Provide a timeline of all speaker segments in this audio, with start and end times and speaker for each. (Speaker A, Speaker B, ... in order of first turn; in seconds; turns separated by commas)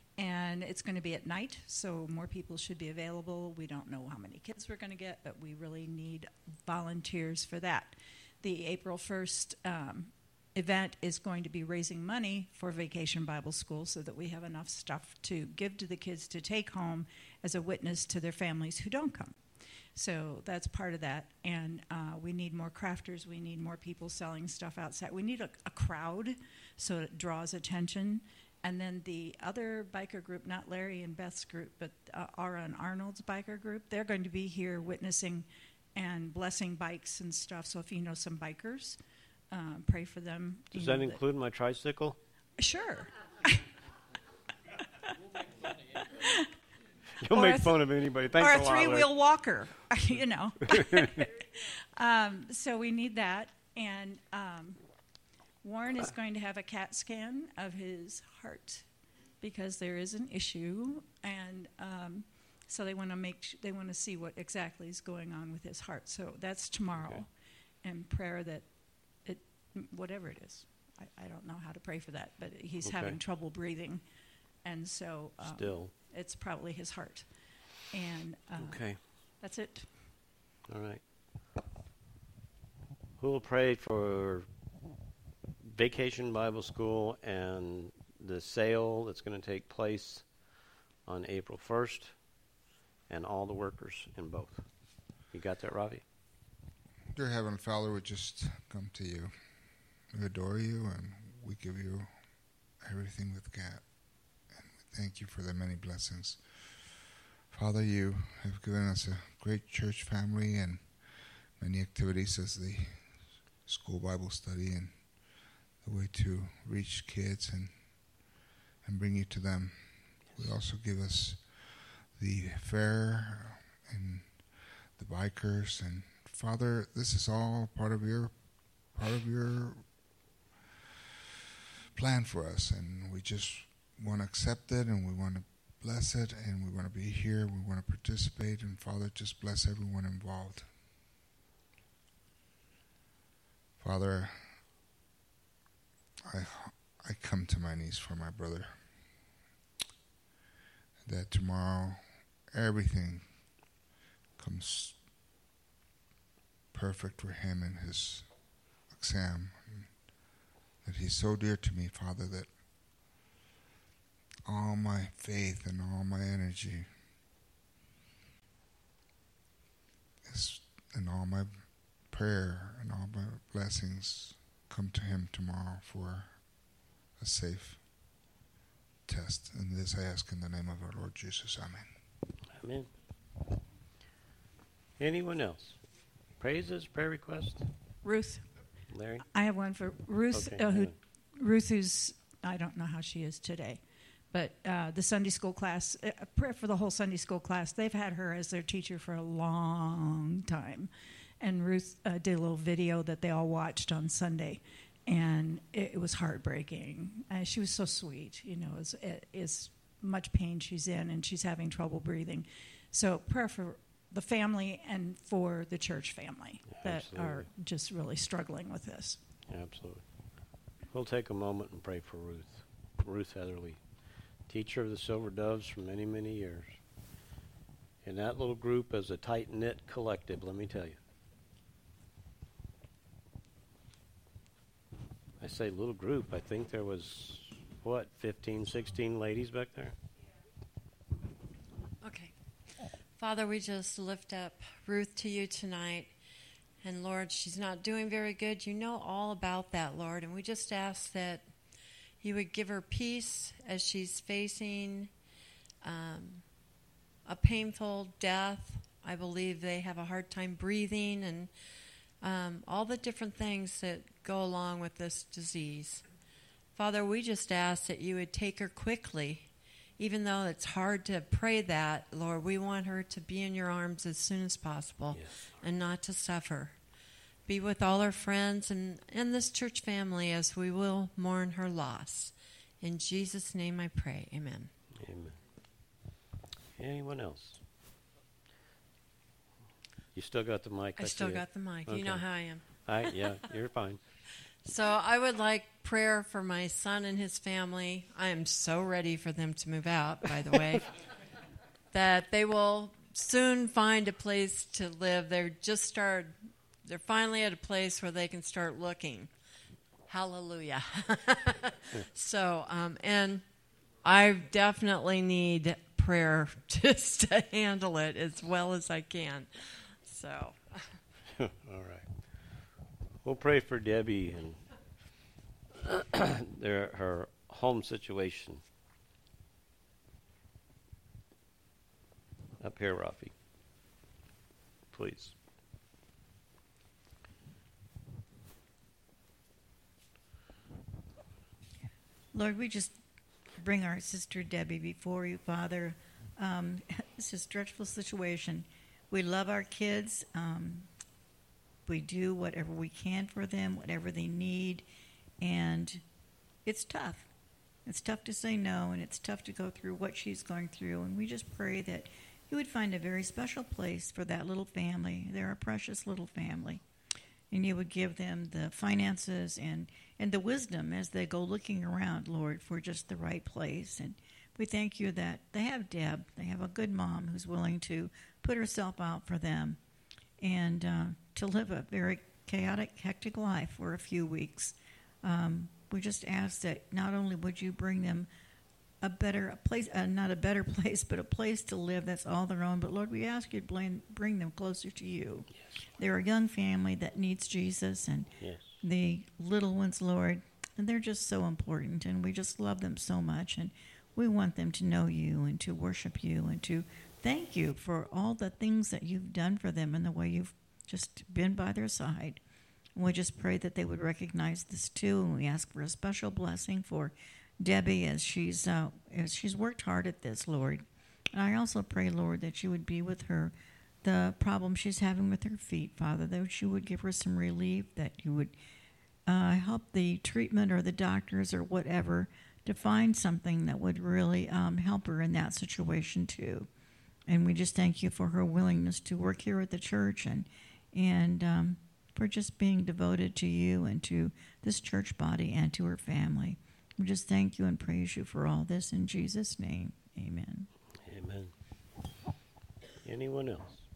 Speaker A: 0.2-39.0, Speaker A: 39.5-41.2, Speaker B: 40.7-42.2, Speaker A: 42.6-43.7, Speaker A: 45.6-46.5, Speaker B: 47.2-49.1, Speaker A: 47.3-47.8, Speaker A: 48.3-54.8, Speaker B: 50.8-51.1, Speaker A: 55.6-58.9, Speaker A: 59.4-74.0, Speaker B: 67.0-67.2, Speaker B: 72.8-73.2, Speaker A: 74.6-80.1, Speaker B: 75.4-75.9, Speaker B: 78.6-79.0, Speaker B: 80.7-81.0, Speaker B: 83.2-84.5, Speaker B: 85.7-90.3, Speaker B: 91.1-92.2, Speaker B: 93.1-96.0, Speaker C: 97.1-130.3, Speaker C: 131.9-140.8, Speaker C: 143.8-144.6, Speaker C: 146.3-149.3, Speaker C: 151.0-155.1, Speaker C: 156.7-163.1, Speaker C: 164.4-167.0, Speaker C: 170.2-178.2, Speaker C: 179.1-182.0, Speaker B: 182.6-182.9, Speaker B: 185.0-185.8, Speaker B: 186.4-187.7, Speaker A: 188.0-188.5, Speaker B: 188.9-189.3, Speaker A: 189.3-219.2, Speaker B: 190.3-190.9, Speaker B: 216.7-217.5, Speaker B: 219.5-220.1, Speaker B: 220.9-223.8, Speaker B: 224.5-226.8, Speaker B: 228.0-231.0, Speaker B: 235.4-239.9, Speaker D: 242.0-242.3, Speaker D: 243.2-246.1, Speaker D: 246.8-251.5, Speaker D: 252.2-255.1, Speaker D: 255.8-256.6, Speaker D: 257.2-261.5, Speaker D: 262.2-266.1, Speaker D: 266.8-276.8, Speaker B: 275.1-275.6, Speaker D: 277.5-284.7, Speaker B: 285.0-285.4, Speaker B: 286.8-287.6, Speaker B: 290.1-294.0, Speaker D: 291.0-292.8, Speaker D: 294.6-301.0, Speaker D: 301.9-309.3, Speaker D: 310.1-313.5, Speaker D: 314.0-321.0, Speaker B: 321.4-322.1, Speaker B: 323.2-324.6, Speaker B: 325.8-328.6, Speaker B: 332.6-333.3, Speaker B: 334.9-335.3, Speaker E: 342.3-343.0, Speaker E: 343.6-350.9, Speaker E: 351.9-354.9, Speaker E: 355.4-356.0, Speaker E: 356.6-357.3, Speaker E: 357.9-366.8, Speaker E: 367.5-379.8, Speaker E: 380.4-388.3, Speaker E: 389.0-412.4, Speaker B: 398.4-398.8, Speaker E: 412.9-428.6, Speaker E: 429.3-436.7, Speaker E: 437.3-450.7, Speaker B: 451.0-451.5, Speaker B: 453.0-453.9